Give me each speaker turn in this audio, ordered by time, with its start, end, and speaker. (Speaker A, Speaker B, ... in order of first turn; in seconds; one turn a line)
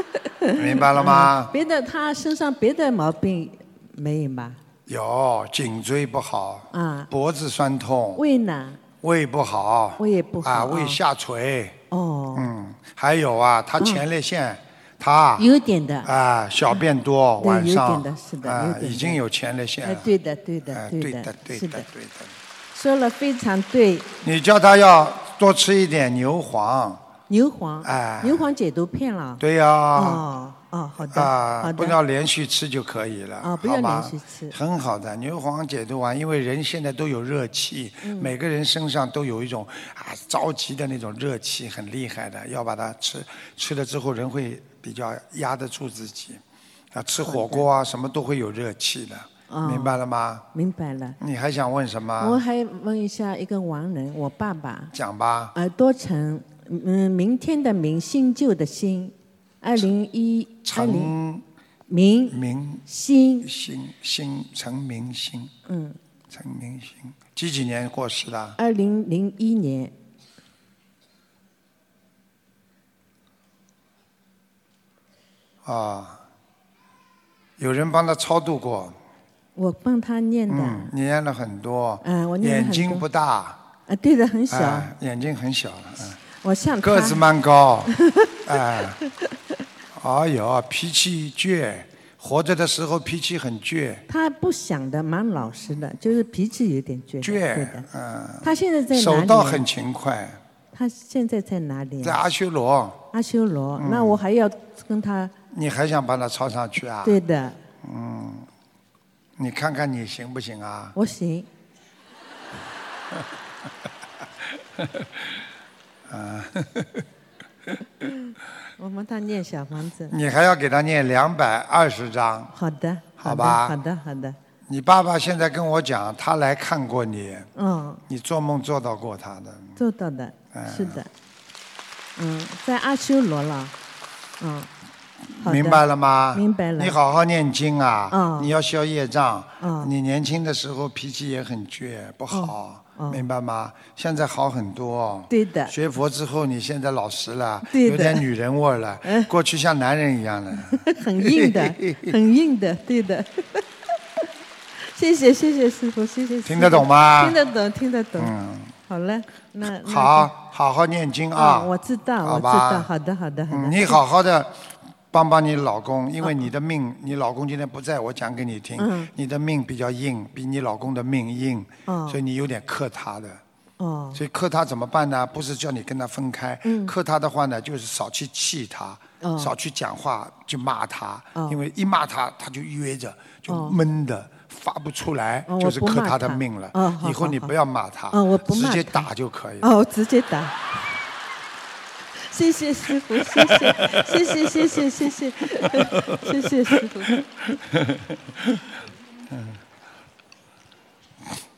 Speaker A: 0.2-4.6
Speaker B: 0.5-1.5
Speaker B: 4.9-8.2
Speaker A: 6.7-7.1
Speaker A: 8.2-8.8
Speaker B: 9.0-11.8
Speaker A: 10.0-11.0
Speaker A: 11.9-12.5
Speaker B: 12.3-15.5
Speaker A: 15.4-16.1
Speaker B: 16.0-20.1
Speaker A: 17.4-19.2
Speaker A: 19.8-21.9
Speaker B: 20.7-22.3
Speaker A: 22.7-24.1
Speaker B: 24.2-27.0
Speaker A: 27.3-29.4
Speaker B: 27.8-28.4
Speaker B: 29.4-30.2
Speaker A: 29.9-32.0
Speaker B: 31.1-46.4
Speaker A: 33.4-34.5
Speaker A: 38.0-38.3
Speaker B: 46.9-50.4
Speaker A: 47.2-47.6
Speaker A: 49.5-49.9
Speaker A: 50.5-51.2
Speaker B: 51.2-52.4
Speaker A: 52.2-54.9
Speaker B: 54.9-55.5
Speaker A: 55.5-61.1
Speaker B: 60.6-61.4
Speaker A: 61.9-63.5
Speaker B: 62.3-62.8
Speaker B: 63.4-65.5
Speaker A: 65.7-66.0
Speaker B: 66.3-68.6
Speaker A: 68.6-69.9
Speaker B: 75.6-76.2
Speaker B: 77.6-79.0
Speaker A: 79.5-80.9
Speaker B: 80.5-83.6
Speaker A: 82.0-83.1
Speaker A: 83.9-84.9
Speaker B: 84.5-86.2
Speaker A: 86.4-87.2
Speaker B: 86.8-89.0
Speaker A: 88.0-88.3
Speaker B: 89.9-94.0
Speaker A: 94.1-97.9
Speaker B: 97.2-100.4
Speaker A: 98.4-99.6
Speaker A: 100.7-102.2
Speaker B: 102.0-103.0
Speaker A: 103.1-105.3
Speaker B: 103.8-104.2
Speaker B: 105.5-107.2
Speaker A: 107.0-107.6
Speaker B: 107.8-108.5
Speaker B: 109.4-111.0
Speaker A: 110.9-111.5
Speaker B: 114.8-115.1
Speaker B: 116.1-117.0
Speaker A: 118.8-120.1
Speaker B: 120.1-122.5
Speaker A: 122.5-124.4
Speaker B: 123.2-123.7
Speaker B: 124.7-127.5
Speaker A: 127.5-128.0
Speaker B: 128.1-129.8
Speaker A: 129.8-131.1
Speaker B: 130.5-131.0
Speaker A: 132.2-133.7
Speaker A: 134.4-134.7
Speaker B: 135.3-152.1
Speaker A: 135.4-135.8
Speaker A: 136.3-136.9
Speaker A: 138.1-138.5
Speaker A: 139.6-139.9
Speaker A: 142.3-143.2
Speaker A: 145.3-145.7
Speaker A: 147.7-148.2
Speaker A: 149.0-149.3
Speaker A: 150.7-153.6
Speaker A: 154.8-158.3
Speaker B: 156.4-157.4
Speaker B: 158.2-158.7
Speaker A: 158.9-160.3
Speaker B: 159.8-162.9
Speaker A: 161.3-164.0
Speaker B: 163.5-173.4
Speaker A: 168.8-169.1
Speaker A: 171.9-172.2
Speaker A: 173.8-174.2
Speaker B: 174.1-189.7
Speaker A: 176.6-176.9
Speaker A: 179.2-179.5
Speaker A: 183.5-183.8
Speaker A: 185.5-187.5
Speaker A: 188.1-189.1
Speaker A: 189.6-190.5
Speaker A: 192.2-197.2
Speaker B: 193.2-194.3
Speaker B: 195.8-196.3
Speaker B: 197.1-198.6